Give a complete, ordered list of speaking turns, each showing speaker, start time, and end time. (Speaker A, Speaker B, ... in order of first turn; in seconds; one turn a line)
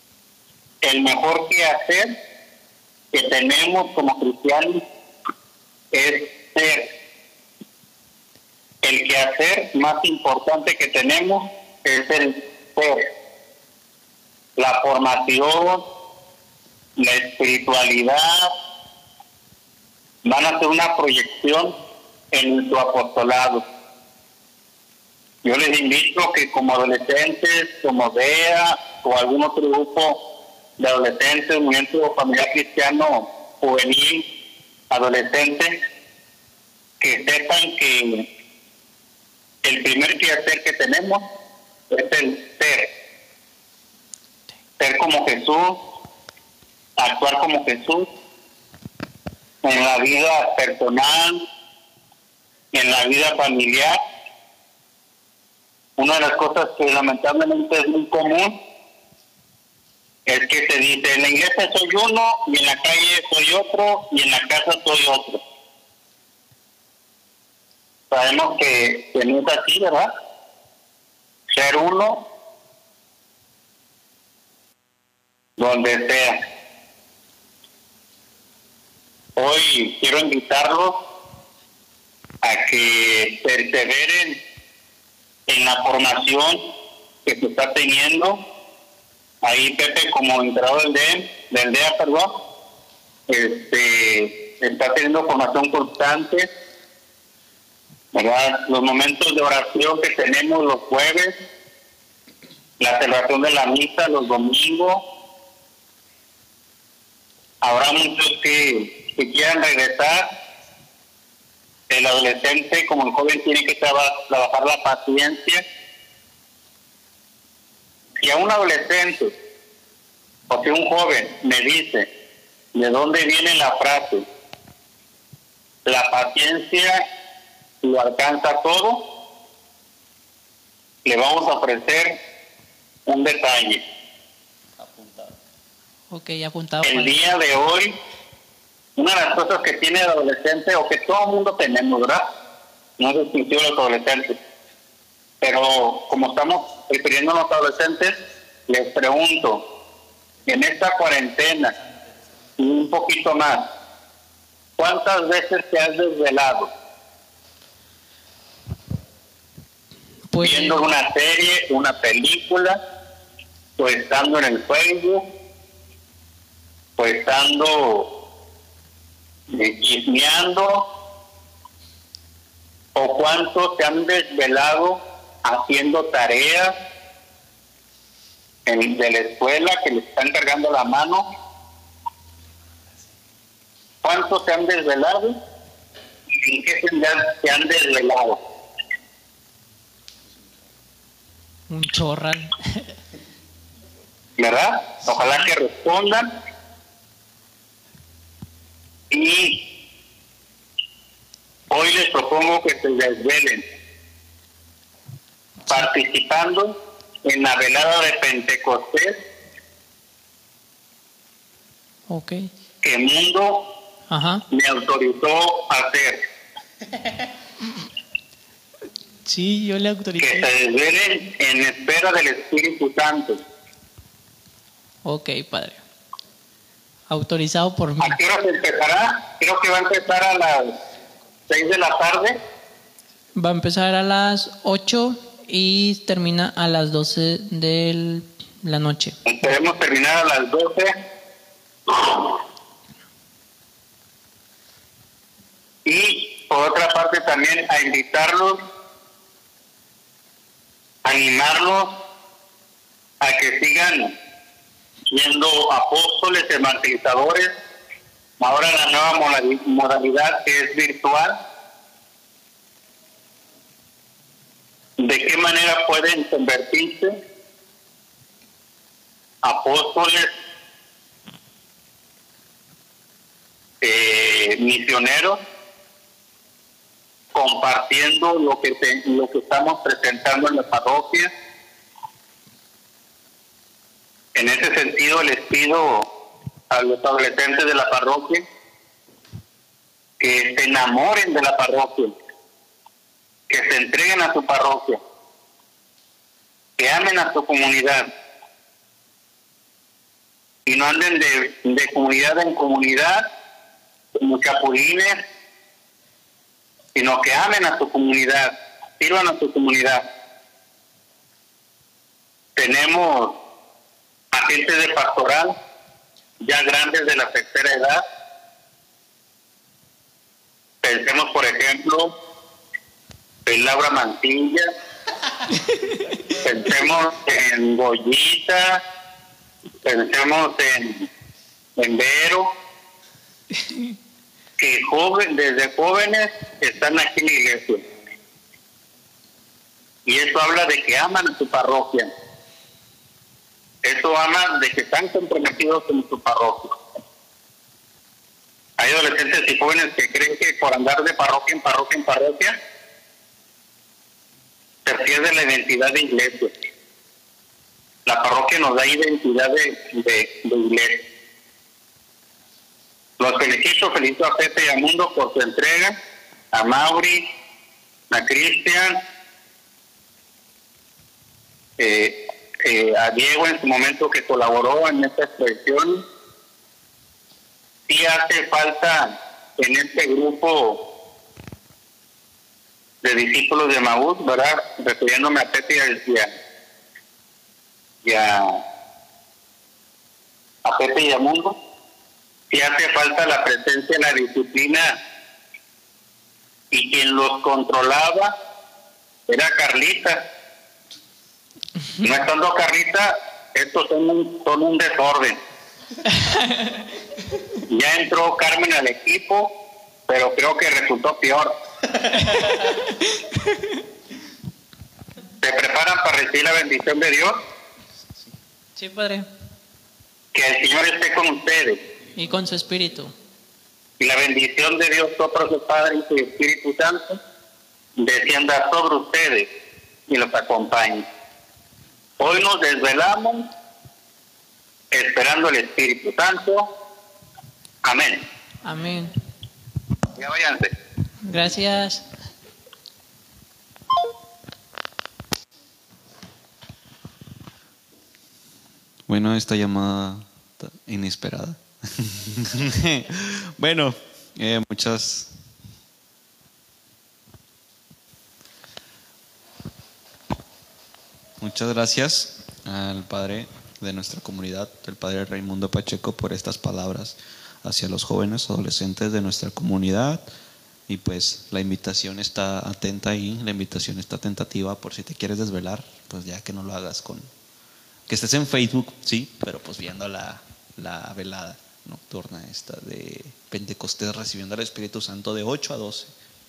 Speaker A: 0.8-2.1
Speaker A: 3.1-4.8
Speaker A: 5.9-6.9
Speaker A: 8.8-13.1
Speaker A: 14.6-15.8
Speaker A: 17.0-18.5
Speaker A: 20.2-21.7
Speaker A: 22.3-23.6
Speaker A: 25.4-30.2
Speaker A: 30.8-34.2
Speaker A: 34.9-35.7
Speaker A: 37.0-38.3
Speaker A: 39.6-41.2
Speaker A: 41.9-42.9
Speaker A: 44.8-45.8
Speaker A: 47.0-48.1
Speaker A: 49.6-51.4
Speaker A: 52.7-54.0
Speaker A: 56.0-58.6
Speaker A: 60.3-65.4
Speaker A: 68.1-70.1
Speaker A: 71.5-72.2
Speaker A: 75.6-76.4
Speaker A: 79.4-80.9
Speaker A: 82.4-84.4
Speaker A: 85.5-86.6
Speaker A: 87.2-88.4
Speaker A: 89.4-92.3
Speaker A: 93.3-96.5
Speaker A: 98.1-101.3
Speaker A: 102.8-105.0
Speaker A: 107.6-110.2
Speaker A: 111.9-115.6
Speaker A: 118.2-119.3
Speaker A: 120.5-122.1
Speaker A: 122.7-124.2
Speaker A: 125.8-127.0
Speaker A: 127.8-129.0
Speaker A: 131.0-132.1
Speaker A: 133.1-133.8
Speaker B: 134.8-135.3
Speaker C: 136.1-137.2
Speaker A: 136.8-137.9
Speaker A: 139.0-142.2
Speaker A: 143.0-144.4
Speaker A: 145.4-149.6
Speaker A: 150.4-151.7
Speaker A: 152.6-153.6
Speaker A: 154.8-156.7
Speaker C: 160.3-160.9
Speaker A: 160.4-162.8
Speaker A: 163.8-165.2
Speaker A: 167.0-168.1
Speaker A: 169.5-170.8
Speaker A: 172.9-176.7
Speaker A: 178.7-181.2
Speaker A: 184.0-185.3
Speaker A: 186.3-188.4
Speaker C: 191.7-192.9
Speaker A: 194.4-196.3
Speaker A: 199.1-199.6
Speaker A: 201.7-203.6
Speaker A: 205.7-206.7
Speaker A: 207.2-209.2
Speaker C: 212.1-212.5
Speaker A: 212.8-213.7
Speaker C: 214.1-214.4
Speaker A: 214.5-216.2
Speaker C: 219.2-220.5
Speaker A: 220.2-223.4
Speaker C: 225.0-225.8
Speaker C: 227.1-228.2
Speaker A: 228.0-230.7
Speaker A: 231.5-232.4
Speaker C: 233.3-239.2
Speaker A: 239.2-240.9
Speaker A: 241.9-242.4
Speaker A: 245.8-248.6
Speaker A: 251.0-252.0
Speaker A: 253.2-254.1
Speaker A: 255.1-257.5
Speaker A: 258.4-261.3
Speaker A: 265.0-267.1
Speaker A: 269.4-270.3
Speaker A: 273.8-275.4
Speaker A: 277.3-281.3
Speaker A: 284.3-286.1
Speaker A: 286.7-288.4
Speaker A: 290.2-292.1
Speaker A: 293.5-295.0
Speaker A: 296.8-298.1
Speaker A: 300.7-303.3
Speaker A: 304.2-305.2
Speaker A: 306.9-310.0
Speaker A: 312.6-313.4
Speaker A: 314.3-315.5
Speaker A: 316.4-318.0
Speaker A: 320.8-322.1
Speaker A: 323.4-324.7
Speaker A: 326.4-328.8
Speaker A: 329.8-331.1
Speaker A: 331.8-332.5
Speaker A: 334.6-337.8
Speaker A: 340.1-342.1
Speaker A: 343.8-346.8
Speaker A: 348.8-352.5
Speaker A: 354.8-356.5
Speaker A: 358.1-361.0
Speaker A: 363.2-365.9
Speaker A: 366.5-367.2
Speaker A: 368.1-369.0
Speaker A: 371.8-376.0
Speaker A: 377.9-380.8
Speaker A: 383.0-386.3
Speaker A: 388.0-388.6
Speaker A: 390.6-391.6
Speaker A: 392.5-394.9
Speaker A: 396.7-398.3
Speaker A: 399.3-400.2
Speaker A: 402.0-405.4
Speaker A: 407.7-409.5
Speaker A: 410.1-411.5
Speaker A: 415.4-417.3
Speaker C: 418.8-419.3
Speaker A: 420.3-421.8
Speaker C: 422.1-423.1
Speaker A: 424.0-427.2
Speaker A: 428.0-429.5
Speaker A: 430.1-431.1
Speaker A: 432.2-433.5
Speaker A: 434.9-436.7
Speaker A: 437.8-438.2
Speaker C: 438.6-439.2
Speaker A: 440.1-440.7
Speaker C: 441.2-442.0
Speaker B: 449.1-455.3
Speaker B: 461.4-470.2
Speaker B: 470.9-477.3
Speaker B: 478.1-486.1